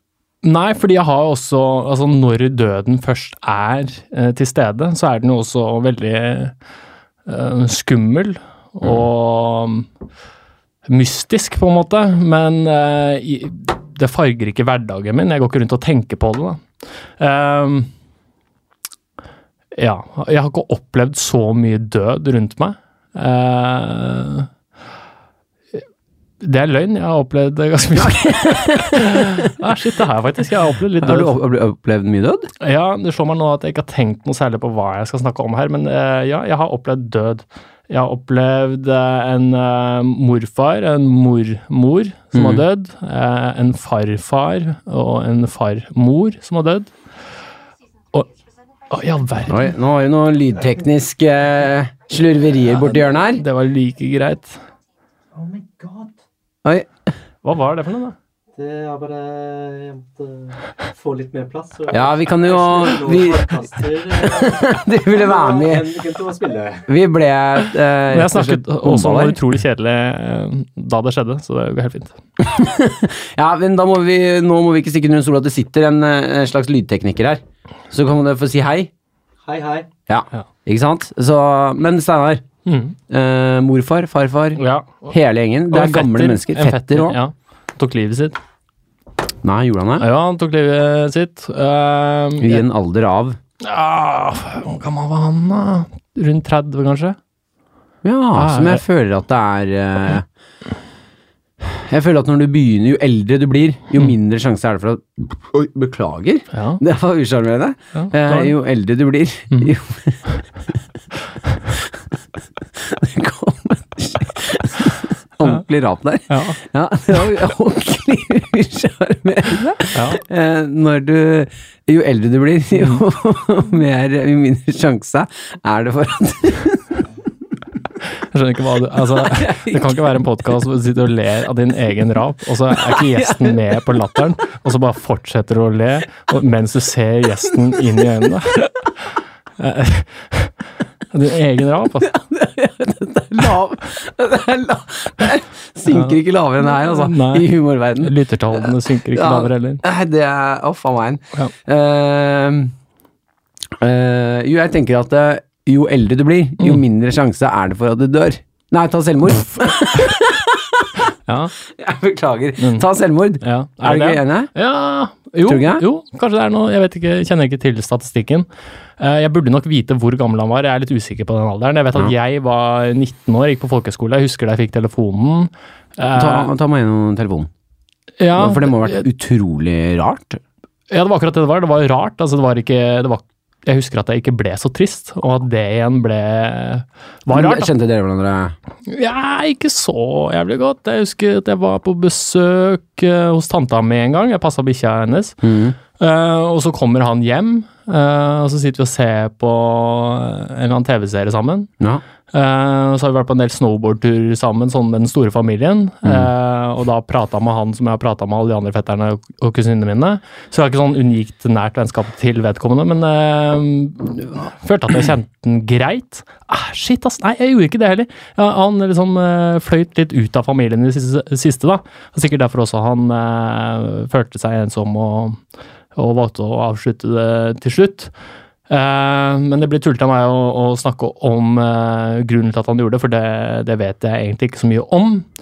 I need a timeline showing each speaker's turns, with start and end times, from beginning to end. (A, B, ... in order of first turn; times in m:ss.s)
0:00.4-0:06.5 A
0:07.3-0:09.9 A
0:10.9-0:16.6 A
0:17.2-0:17.9 A
0:19.8-0:24.5 A
0:26.4-0:31.4 A
0:28.0-0:29.5 B
0:31.0-0:32.5 B
0:32.6-0:46.9 A
0:42.3-0:42.6 B
0:48.9-0:49.7 A
0:49.5-0:53.4 B
0:52.8-0:54.6 A
0:55.3-0:56.2 C
0:57.4-0:58.2 A
0:58.6-1:06.9 C
1:01.9-1:06.0 B
1:06.9-1:09.4 B
1:08.1-1:12.2 A
1:12.4-1:18.9 B
1:19.4-1:19.9 C
1:20.1-1:22.4 B
1:22.7-1:23.0 A
1:23.1-1:27.2 B
1:24.6-1:25.1 A
1:25.7-1:28.4 A
1:29.4-1:30.1 B
1:30.0-1:32.6 A
1:32.4-1:33.4 B
1:33.6-1:37.2 A
1:38.0-1:40.3 B
1:38.4-1:38.8 A
1:41.6-1:50.3 B
1:46.5-1:46.8 A
1:47.9-1:48.5 A
1:51.7-1:52.0 B
1:52.8-2:06.8 B
1:56.3-1:56.6 A
2:00.0-2:00.2 A
2:02.8-2:03.0 A
2:08.3-2:18.7 A
2:09.2-2:10.2 B
2:12.7-2:14.0 B
2:19.6-2:20.6 A
2:21.1-2:22.1 A
2:22.0-2:32.7 B
2:25.9-2:26.2 A
2:26.7-2:27.5 A
2:28.0-2:29.8 A
2:33.8-2:41.0 B
2:41.3-2:41.5 A
2:41.6-2:44.5 B
2:42.6-2:42.9 A
2:43.4-2:48.5 A
2:45.5-2:45.8 B
2:49.0-2:56.5 A
2:56.1-2:57.5 B
2:58.2-2:59.1 A
2:58.4-3:00.4 B
3:00.9-3:07.7 A
3:07.3-3:08.6 B
3:08.9-3:15.4 A
3:15.4-3:15.8 B
3:16.0-3:21.7 A
3:22.3-3:45.4 A
3:26.0-3:26.3 B
3:46.0-3:48.1 A
3:48.7-3:55.3 A